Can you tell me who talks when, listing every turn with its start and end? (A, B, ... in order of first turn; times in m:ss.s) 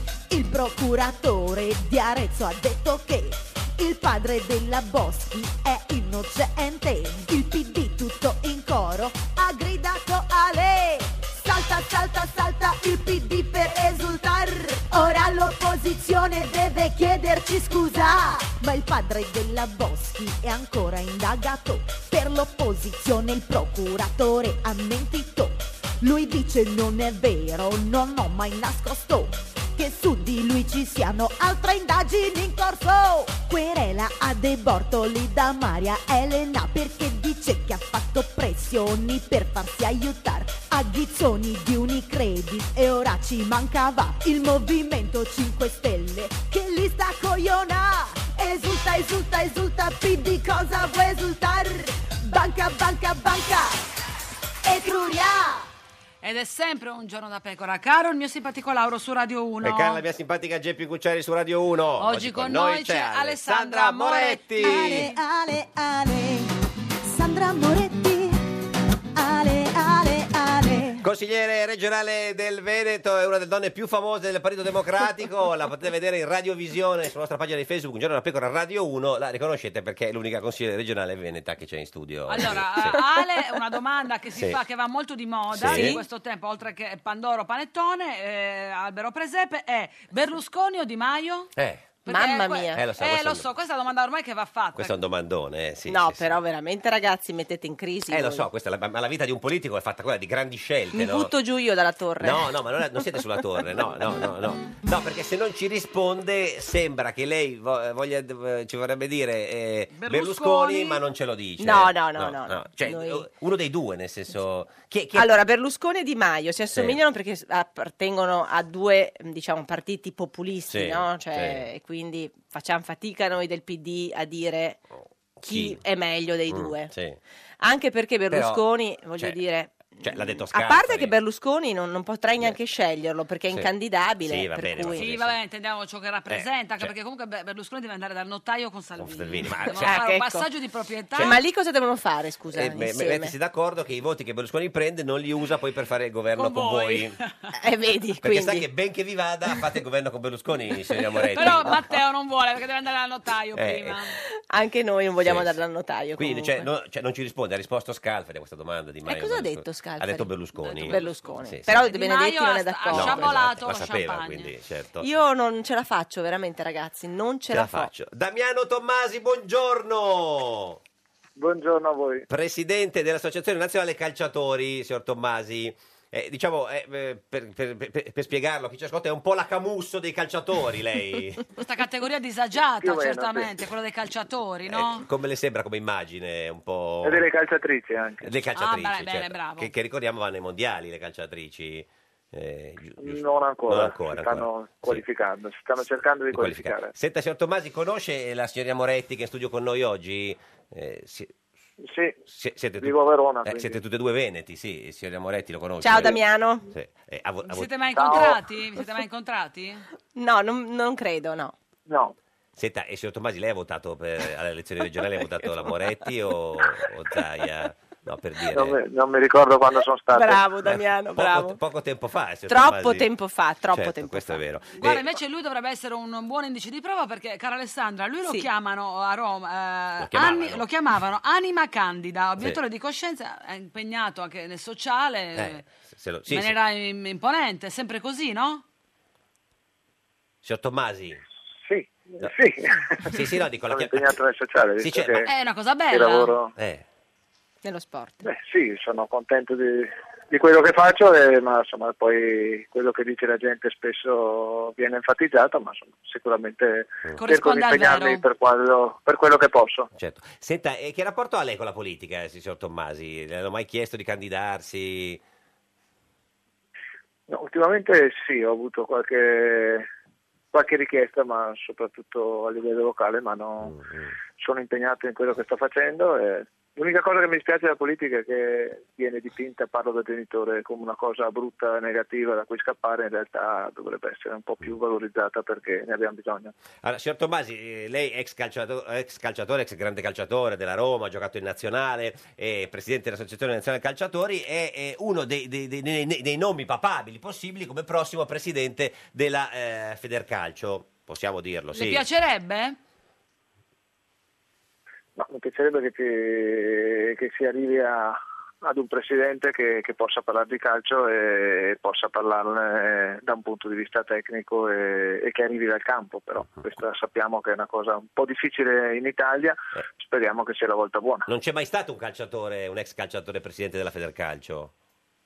0:00.3-0:53.8 A
0:54.6-0:55.7 A
0:56.2-1:00.0 B
0:59.6-1:05.1 C
1:02.0-1:05.1 B
1:04.6-1:06.5 A
1:07.0-1:08.6 A
1:09.1-1:11.0 A
1:11.0-1:23.0 C
1:22.3-1:31.5 B
1:25.5-1:26.0 C
1:25.7-1:26.0 D
1:31.6-1:32.0 C
1:32.0-1:35.0 B
1:32.1-1:32.8 D
1:32.7-1:33.5 C
1:34.8-1:36.4 C
1:35.9-1:38.5 D
1:38.1-1:41.3 C
1:40.9-1:42.5 D
1:42.2-1:55.4 C
1:50.0-1:51.0 B
1:51.6-1:53.3 D
1:55.1-2:04.8 D
1:56.7-1:57.0 C
2:00.7-2:01.7 C
2:05.4-2:06.9 D
2:05.4-2:05.8 C
2:06.5-2:07.2 C
2:07.6-2:15.1 D
2:08.3-2:08.6 C
2:10.0-2:11.2 C
2:14.2-2:15.4 C
2:15.0-2:21.4 B
2:16.3-2:16.9 C
2:19.0-2:20.0 C
2:19.8-2:20.5 D
2:21.2-2:21.4 C
2:21.2-2:23.3 D
2:22.5-2:27.2 C
2:26.3-2:27.4 B
2:27.6-2:28.7 D
2:28.2-2:31.8 C
2:31.3-2:34.1 B
2:33.6-2:34.0 C
2:34.5-2:36.7 D
2:35.2-2:35.6 C
2:36.2-2:41.7 C
2:39.0-2:43.4 D
2:40.6-2:44.5 B
2:42.9-2:45.1 C
2:45.0-2:47.9 D
2:47.5-2:50.8 C
2:51.4-2:52.3 E
2:52.3-3:01.5 C
3:01.6-3:05.0 B
3:02.8-3:03.5 E
3:04.7-3:07.3 C
3:07.0-3:08.3 E
3:08.2-3:15.0 C
3:08.6-3:09.7 B
3:13.0-3:16.9 E
3:16.3-3:21.3 C
3:21.8-3:22.2 E
3:22.3-3:27.9 C
3:22.8-3:23.8 E
3:25.8-3:26.7 D
3:27.5-3:29.9 B
3:28.0-3:28.4 E
3:30.1-3:31.6 D
3:31.9-3:32.1 E
3:32.6-3:38.8 C
3:38.5-3:40.4 E
3:40.1-3:41.6 D
3:40.6-3:43.1 C
3:42.5-3:44.4 D
3:43.7-3:45.1 C
3:44.8-3:55.6 B
3:50.0-3:50.6 C
3:55.4-3:56.6 C
3:56.3-3:58.6 B
4:00.4-4:01.2 C
4:01.6-4:05.3 E
4:03.0-4:04.2 C
4:04.8-4:05.3 C
4:05.2-4:06.4 B
4:05.9-4:06.5 E
4:06.6-4:06.8 C
4:07.6-4:08.2 D
4:08.2-4:19.9 E
4:17.2-4:18.2 B
4:20.0-4:25.2 C
4:27.3-4:29.9 E
4:30.5-4:33.8 E
4:33.6-4:34.1 C
4:34.4-4:46.5 E
4:46.8-5:02.0 C
5:01.7-5:02.8 B
5:05.2-5:21.3 E
5:21.3-5:24.7 C